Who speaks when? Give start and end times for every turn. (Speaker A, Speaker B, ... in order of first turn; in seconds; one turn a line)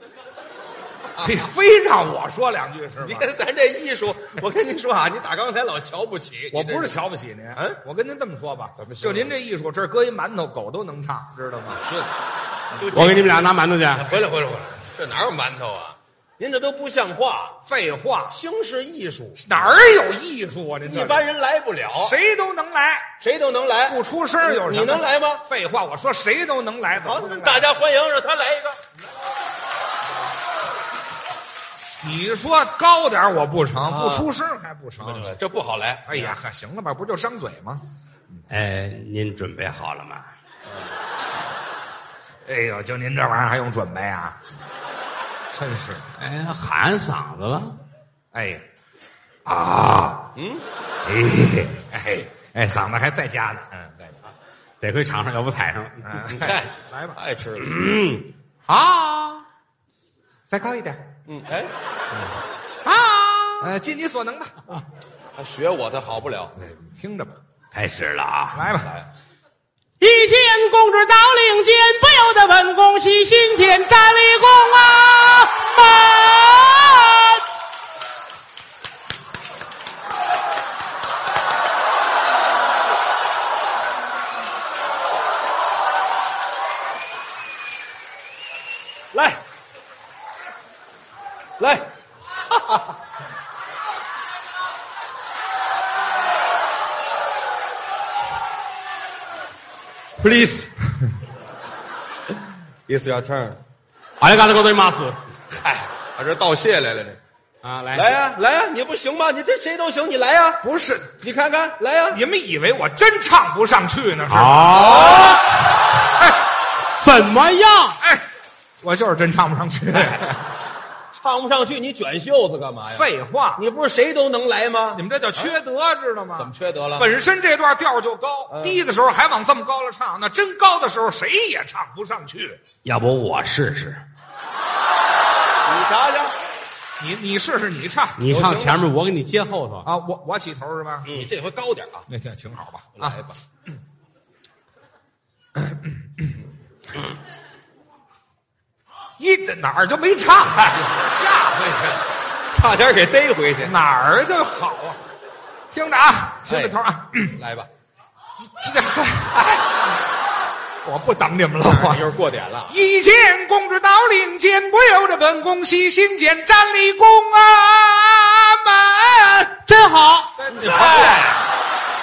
Speaker A: 1.1-1.5
Speaker B: 1.2-3.3
Speaker A: 3.0-7.0
Speaker B: 6.5-11.8
Speaker A: 7.5-7.8
Speaker A: 8.8-9.3
Speaker A: 11.8-12.1
Speaker A: 12.8-13.4
Speaker C: 12.9-14.1
Speaker A: 13.9-17.6
Speaker B: 17.6-18.4
Speaker A: 18.3-19.4
Speaker B: 19.4-21.2
Speaker A: 20.9-22.1
Speaker B: 22.0-23.1
Speaker A: 23.2-25.4
Speaker B: 23.9-27.6
Speaker A: 27.0-28.8
Speaker B: 32.0-35.4
Speaker A: 33.9-34.3
Speaker A: 35.0-36.3
Speaker B: 36.0-37.8
Speaker C: 38.5-40.3
Speaker B: 42.5-44.4
Speaker B: 45.5-46.0
Speaker C: 46.2-47.8
Speaker B: 48.3-48.6
Speaker B: 49.5-50.3
Speaker A: 50.4-50.6
Speaker B: 51.0-54.2
Speaker C: 54.8-56.4
Speaker B: 56.0-57.2
Speaker A: 56.4-57.7
Speaker C: 57.6-59.5
Speaker B: 60.5-61.1
Speaker A: 61.2-61.7
Speaker C: 62.9-63.7
Speaker B: 63.6-64.8
Speaker A: 65.3-66.5
Speaker B: 66.5-67.4
Speaker C: 67.7-68.7
Speaker B: 68.5-68.9
Speaker C: 70.0-77.4
Speaker A: 89.1-89.4
Speaker A: 91.6-91.9
Speaker A: 92.5-93.0
Speaker A: 100.2-100.9
Speaker A: 102.9-103.6
Speaker C: 104.2-105.2
Speaker A: 105.5-107.2
Speaker C: 107.6-108.2
Speaker A: 107.9-110.6
Speaker B: 110.6-111.2
Speaker A: 111.2-112.2
Speaker B: 112.1-115.3
Speaker C: 114.3-115.6
Speaker A: 114.7-115.4
Speaker C: 117.0-118.0
Speaker B: 118.8-120.4
Speaker A: 119.9-120.2
Speaker A: 121.1-125.5
Speaker B: 122.9-123.6
Speaker B: 124.9-132.6
Speaker A: 126.4-127.1
Speaker A: 128.5-128.8
Speaker C: 132.8-134.0
Speaker A: 135.6-136.3
Speaker B: 137.0-138.2
Speaker C: 138.2-139.9
Speaker A: 138.2-138.8
Speaker B: 139.8-141.1
Speaker C: 141.1-141.3
Speaker A: 141.1-142.1
Speaker B: 142.1-143.2
Speaker A: 143.0-143.4
Speaker B: 149.2-151.9
Speaker A: 152.5-153.7
Speaker B: 153.6-155.0
Speaker B: 155.7-157.4
Speaker A: 156.5-157.7
Speaker B: 158.4-159.8
Speaker B: 160.8-162.1
Speaker A: 161.7-162.7
Speaker B: 162.7-169.6
Speaker C: 169.6-170.4
Speaker B: 170.4-171.3
Speaker A: 170.5-171.4